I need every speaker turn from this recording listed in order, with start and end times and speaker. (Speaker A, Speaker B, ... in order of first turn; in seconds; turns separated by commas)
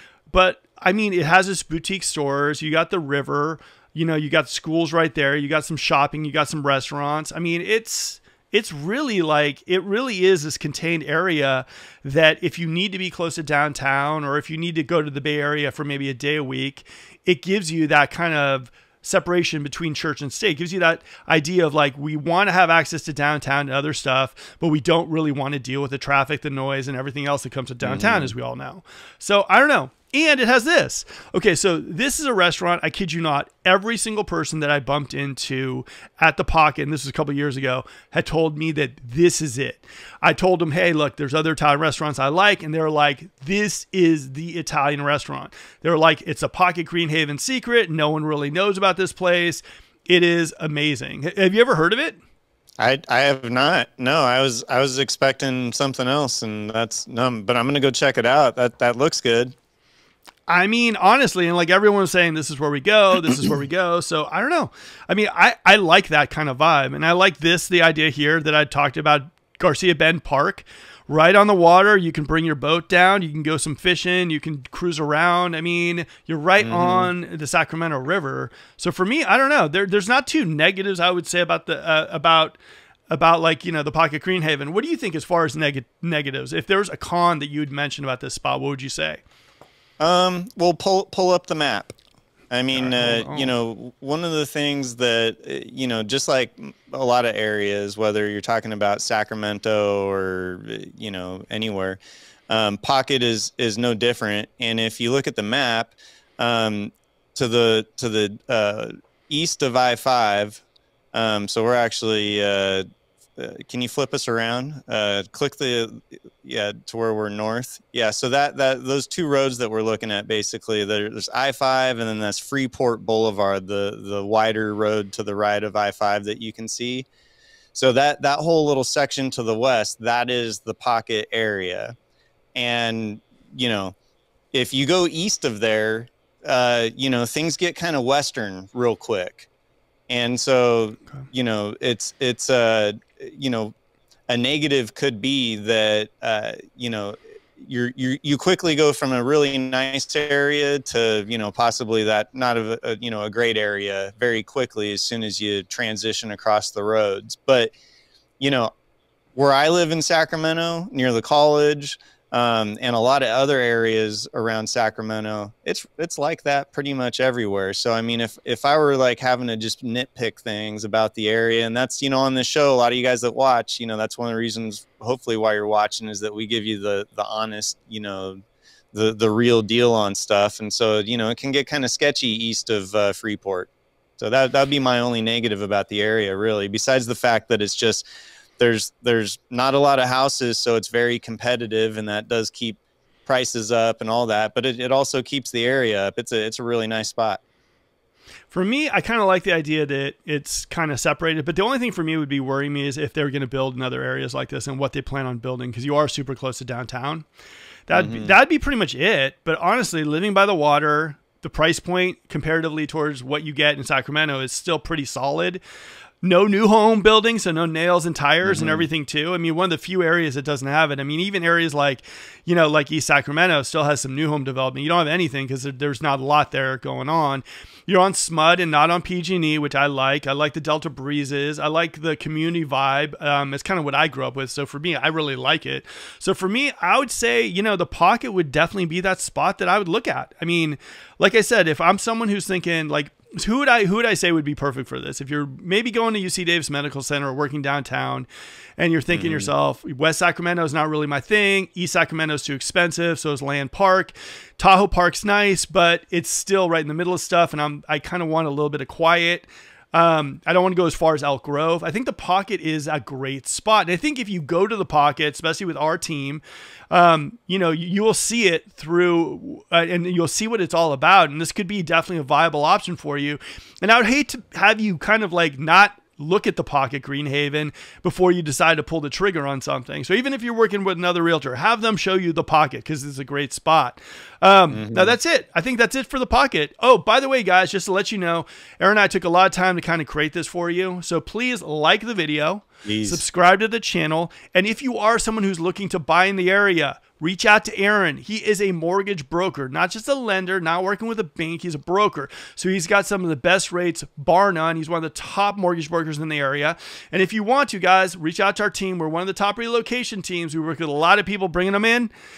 Speaker A: 0.3-52.2, Speaker B: 27.8-28.3, Speaker B: 52.8-59.5, Speaker A: 60.5-82.6, Speaker B: 76.6-77.1, Speaker A: 83.1-89.2, Speaker B: 90.0-91.9, Speaker B: 92.5-110.6, Speaker A: 92.7-93.5, Speaker B: 111.1-112.8, Speaker B: 113.4-127.1, Speaker B: 127.7-131.9, Speaker B: 132.5-133.9, Speaker B: 134.5-139.5, Speaker B: 140.1-143.7, Speaker B: 144.3-157.7, Speaker B: 158.4-158.7, Speaker B: 159.3-178.4, Speaker B: 178.9-188.0, Speaker B: 188.6-197.4, Speaker A: 198.5-207.2, Speaker A: 207.9-215.6, Speaker B: 207.9-208.3, Speaker A: 216.2-248.3, Speaker B: 218.4-218.9, Speaker A: 248.8-312.1, Speaker B: 249.1-249.5, Speaker B: 284.7-285.1, Speaker B: 292.8-293.2